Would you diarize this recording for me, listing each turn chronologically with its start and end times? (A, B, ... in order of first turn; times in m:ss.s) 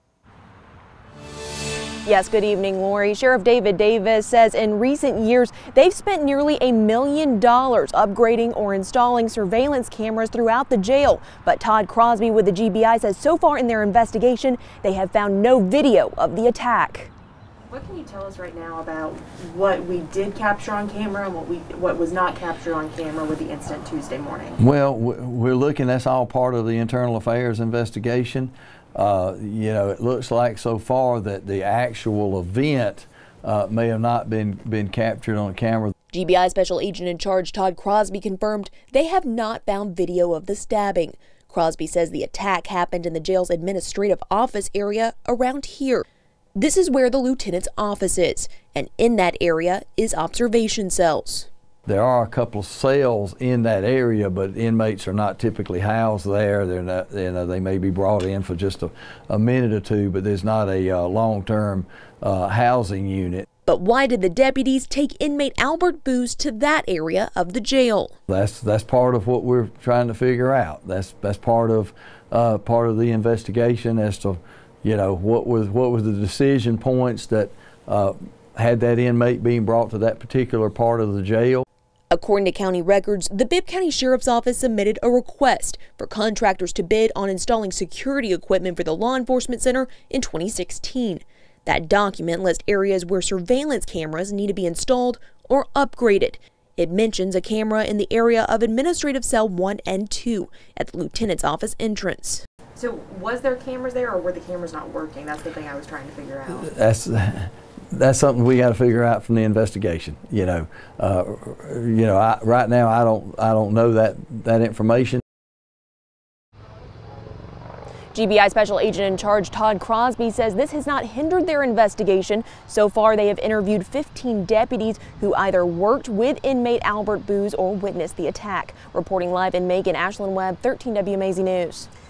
0:02.0-0:17.1 A
0:17.7-0:24.6 B
0:24.6-0:35.9 C
0:36.1-0:51.5 A
0:51.9-1:03.5 C
1:03.7-1:08.2 A
1:08.3-1:21.6 C
1:22.1-1:42.4 A
1:42.8-1:46.7 B
1:46.6-1:55.2 C
1:58.1-2:11.9 A